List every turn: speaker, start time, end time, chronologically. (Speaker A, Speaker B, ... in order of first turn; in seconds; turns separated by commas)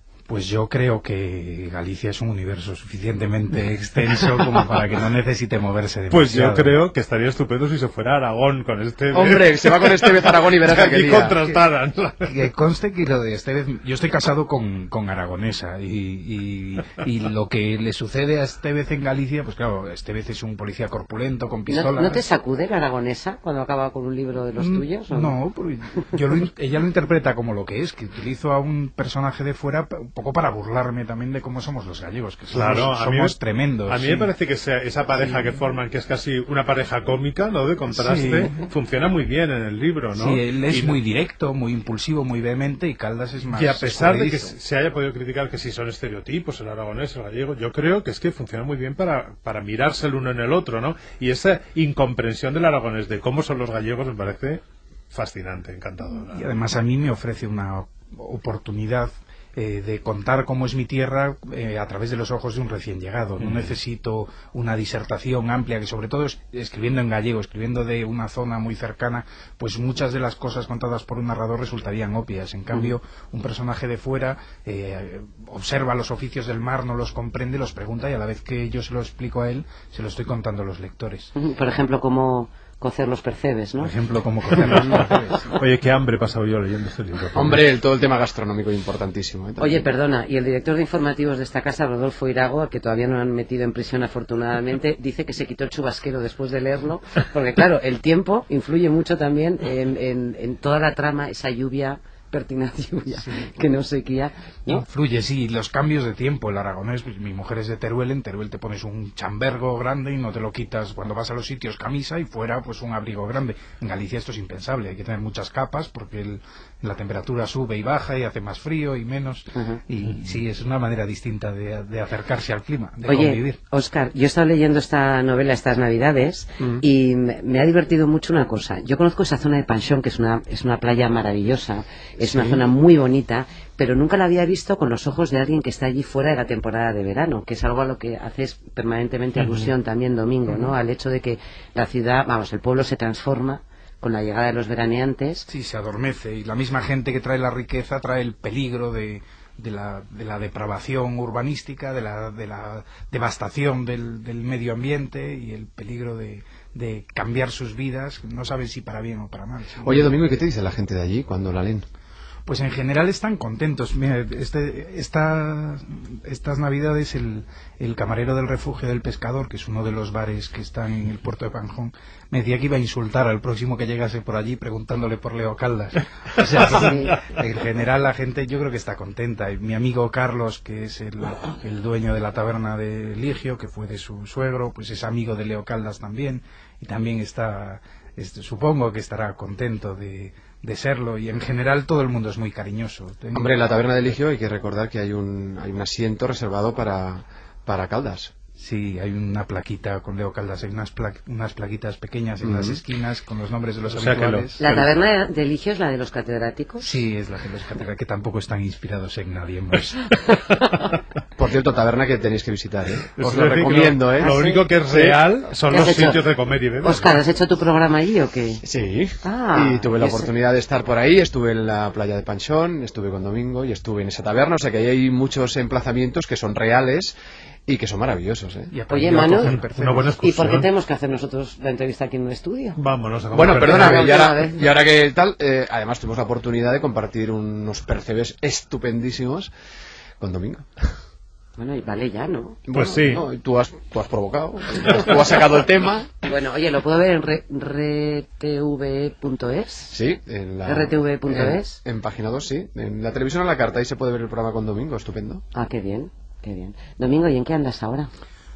Speaker A: 0.3-6.8, Speaker B: 6.1-12.3, Speaker C: 9.1-11.3, Speaker A: 12.2-22.2, Speaker D: 21.7-25.3, Speaker A: 24.6-34.3, Speaker B: 32.5-33.4, Speaker B: 33.9-41.0, Speaker A: 37.9-38.6, Speaker A: 40.1-44.5, Speaker B: 43.5-56.5, Speaker A: 56.2-81.3, Speaker B: 63.4-63.7, Speaker D: 81.3-83.9, Speaker A: 83.8-85.6, Speaker B: 84.5-87.7, Speaker C: 87.3-89.9, Speaker D: 89.6-104.8, Speaker A: 104.7-123.6, Speaker D: 119.5-119.8, Speaker D: 123.0-145.5, Speaker C: 132.2-132.6, Speaker B: 139.4-139.7, Speaker A: 145.5-160.1, Speaker C: 159.8-161.8, Speaker A: 162.4-193.5, Speaker D: 176.7-177.2, Speaker C: 193.3-198.3, Speaker A: 198.6-204.7, Speaker C: 202.4-202.8, Speaker B: 203.9-204.8, Speaker D: 204.6-207.0, Speaker A: 206.8-210.2, Speaker C: 211.3-215.2, Speaker B: 213.2-217.2, Speaker D: 214.2-214.6, Speaker D: 215.7-216.2, Speaker D: 216.8-218.6, Speaker C: 218.6-227.1, Speaker D: 219.2-220.3, Speaker C: 227.7-228.7, Speaker A: 228.7-230.6, Speaker D: 228.9-229.6, Speaker B: 229.4-230.7, Speaker D: 230.2-232.8, Speaker B: 232.8-234.3, Speaker C: 233.3-239.5, Speaker D: 233.4-234.7, Speaker C: 240.2-240.7, Speaker D: 241.6-242.6, Speaker C: 242.7-246.2, Speaker B: 242.7-243.3, Speaker D: 246.2-250.0, Speaker C: 249.9-255.4, Speaker D: 250.7-251.8, Speaker D: 255.5-258.1